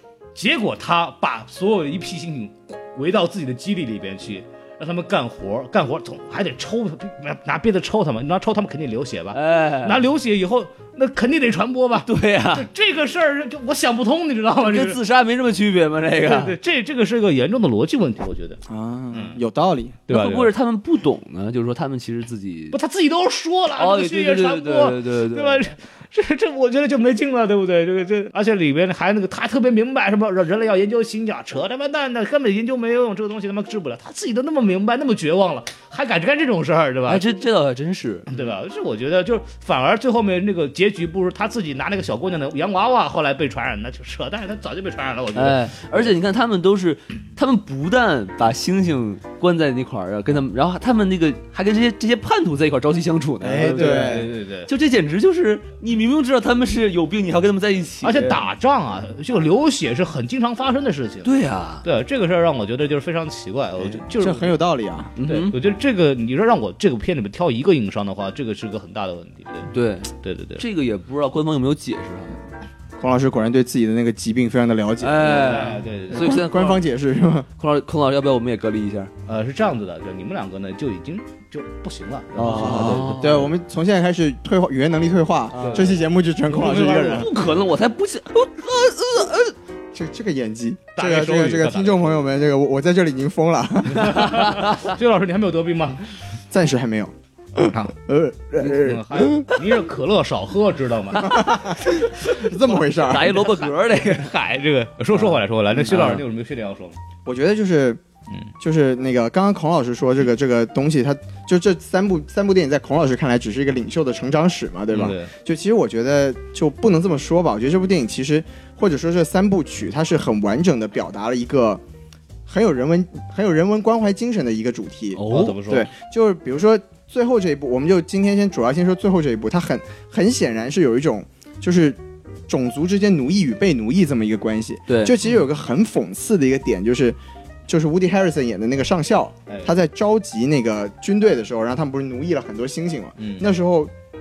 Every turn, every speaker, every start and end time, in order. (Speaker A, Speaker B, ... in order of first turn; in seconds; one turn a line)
Speaker A: 0.4-15.0
Speaker B: 9.3-10.0
Speaker B: 12.1-12.7
Speaker B: 14.6-16.6
Speaker A: 16.2-18.6
Speaker C: 18.7-20.0
Speaker A: 19.1-19.4
Speaker A: 20.1-20.5
Speaker B: 20.1-22.8
Speaker A: 22.7-37.2
Speaker B: 23.7-25.7
Speaker B: 37.1-38.3
Speaker A: 38.3-46.1
Speaker B: 45.4-58.4
Speaker C: 53.4-54.3
Speaker A: 53.6-54.7
Speaker A: 58.0-61.3
Speaker B: 61.2-61.9
Speaker A: 61.8-64.6
Speaker C: 64.2-65.1
Speaker B: 65.2-65.6
Speaker A: 65.3-69.7
Speaker B: 69.7-72.4
Speaker A: 70.2-70.6
Speaker C: 73.0-77.5
Speaker B: 75.0-76.8
Speaker A: 75.2-76.4
Speaker B: 77.6-79.1
Speaker A: 79.3-83.2
Speaker B: 82.3-83.5
Speaker C: 82.4-87.3
Speaker B: 85.5-85.9
Speaker A: 85.6-87.3
Speaker B: 86.9-89.5
Speaker C: 89.9-94.3
Speaker A: 91.0-92.3
Speaker A: 94.0-96.1
Speaker B: 94.0-94.9
Speaker C: 96.5-99.5
Speaker A: 98.7-101.5
Speaker C: 101.2-103.4
Speaker A: 102.3-107.0
Speaker B: 103.0-104.3
Speaker B: 105.2-106.2
Speaker C: 107.2-108.0
Speaker C: 108.6-121.8
Speaker A: 114.9-115.3
Speaker C: 122.5-143.9
Speaker B: 125.1-125.6
Speaker A: 125.3-125.9
Speaker B: 134.9-135.1
Speaker A: 139.5-139.7
Speaker A: 143.2-143.5